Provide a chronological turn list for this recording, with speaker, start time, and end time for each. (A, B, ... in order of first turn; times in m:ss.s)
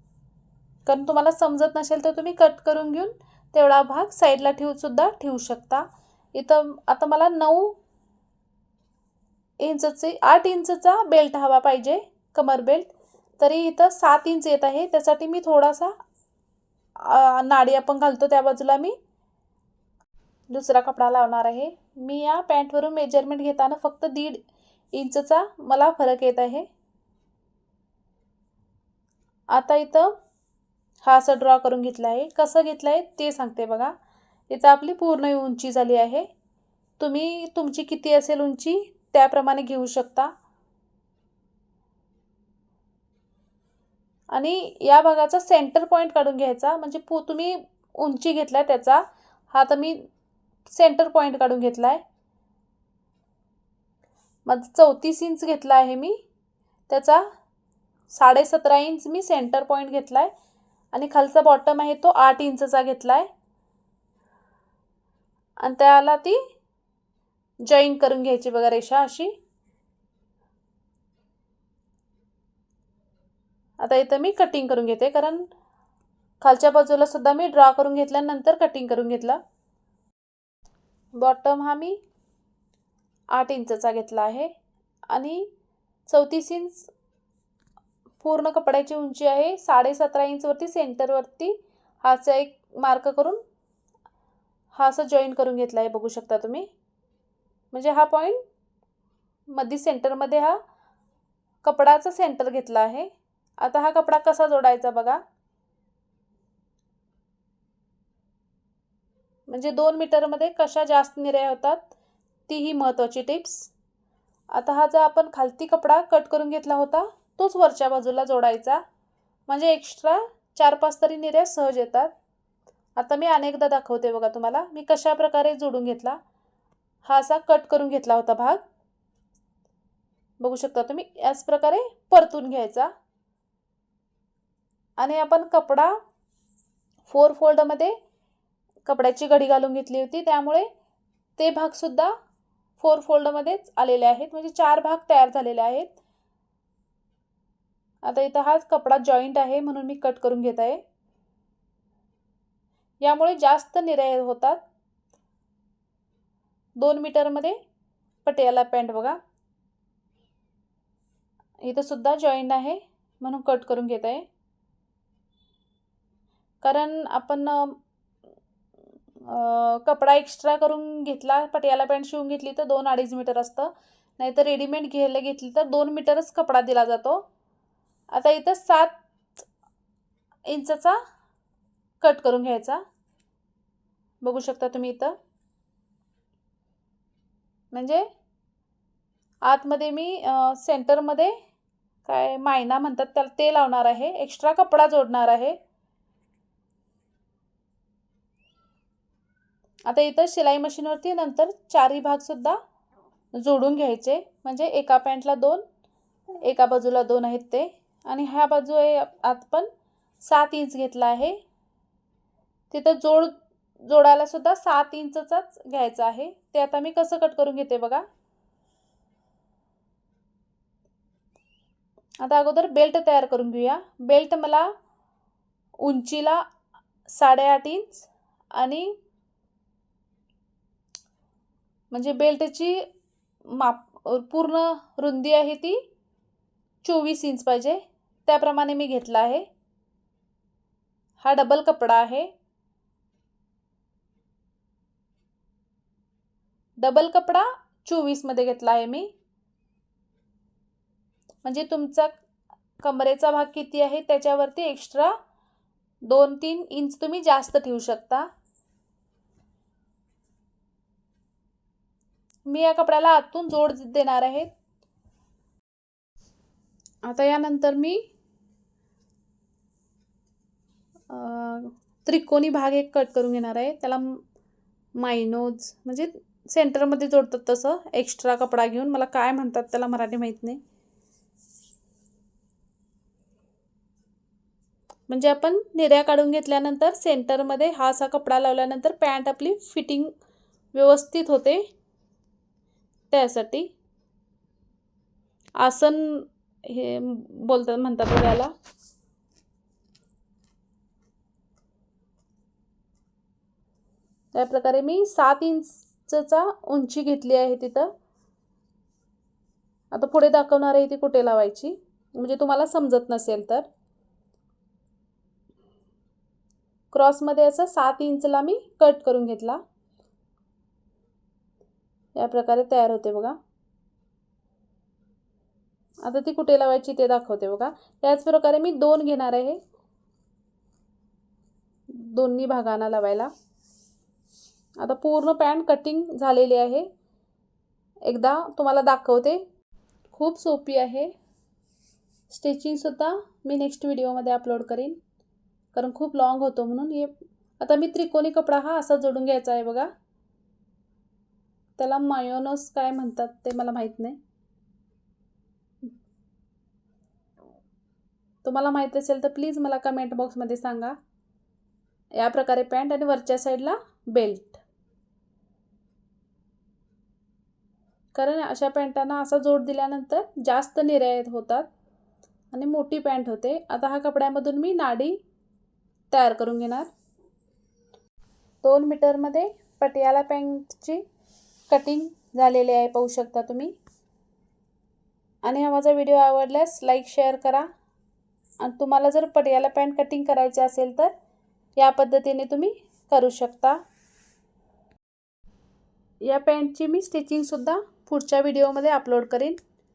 0:00.9-0:07.8 A
0:09.6-0:16.0 A
0:17.0-0:19.0 A
0:20.5-0:24.4 A
0:24.9-0:26.7 A
0:29.5-0:30.2 A
0:31.0-0:33.9 A
0:34.5-0:36.3 A
0:37.0-0:40.3 A
0:44.3-0:50.0 A
0:50.7-0:52.0 A
0:54.5-0:56.2 A
0:56.9-0:57.2 A
0:58.1-1:00.3 A
1:00.9-1:03.3 A
1:05.6-1:06.4 A
1:07.6-1:09.3 A
1:13.8-1:15.5 A
1:16.4-1:19.4 A
1:21.2-1:22.0 A
1:23.3-1:24.5 A
1:25.1-1:25.5 A
1:26.1-1:26.9 A
1:28.2-1:33.4 A
1:34.7-1:36.7 A
1:37.7-1:38.4 A
1:39.5-1:40.6 A
1:41.6-1:43.1 A
1:43.6-1:45.2 A
1:49.5-1:51.9 A
1:52.5-1:53.7 A
1:54.5-1:58.8 A
1:59.5-2:02.1 A
2:03.0-2:06.2 A
2:07.0-2:08.6 A
2:10.4-2:12.9 A
2:15.0-2:16.0 A
2:17.1-2:18.0 A
2:18.8-2:20.7 A
2:21.4-2:22.1 A
2:22.8-2:26.0 A
2:28.0-2:30.8 A
2:33.0-2:34.6 A
2:36.8-2:37.6 A
2:38.3-2:39.2 A
2:41.6-2:44.3 A
2:46.6-2:47.8 A
2:49.2-2:57.2 A
2:58.1-2:58.9 A
3:00.5-3:01.0 A
3:02.0-3:02.8 A
3:04.2-3:05.2 A
3:07.7-3:08.1 A
3:09.4-3:11.4 A
3:12.1-3:15.6 A
3:19.9-3:22.6 A
3:23.4-3:25.6 A
3:26.4-3:29.7 A
3:30.2-3:31.4 A
3:32.7-3:38.0 A
3:42.2-3:44.7 A
3:45.8-3:46.4 A
3:47.1-3:48.9 A
3:51.9-3:52.8 A
3:53.5-3:55.8 A
3:56.8-3:59.5 A
4:01.2-4:02.3 A
4:06.8-4:09.1 A
4:11.4-4:12.1 A
4:12.8-4:15.2 A
4:16.1-4:18.3 A
4:22.5-4:24.5 A
4:27.0-4:28.0 A
4:31.1-4:34.2 A
4:35.0-4:40.6 A
4:45.1-4:50.1 A
4:50.7-4:51.6 A
4:53.1-4:53.7 A
4:55.6-4:58.5 A
5:04.3-5:07.9 A
5:09.9-5:13.7 A
5:16.9-5:19.6 A
5:22.2-5:23.4 A
5:26.0-5:29.6 A
5:31.9-5:33.3 A
5:34.8-5:36.9 A
5:38.0-5:39.4 A
5:40.1-5:41.1 A
5:42.3-5:45.0 A
5:45.7-5:49.9 A
5:51.8-5:54.2 A
5:58.4-6:01.0 A
6:02.2-6:04.6 A
6:08.2-6:11.7 A
6:12.5-6:15.2 A
6:16.1-6:16.9 A
6:18.6-6:21.0 A
6:21.7-6:23.8 A
6:25.4-6:27.7 A
6:28.6-6:31.1 A
6:31.8-6:33.8 A
6:36.2-6:39.6 A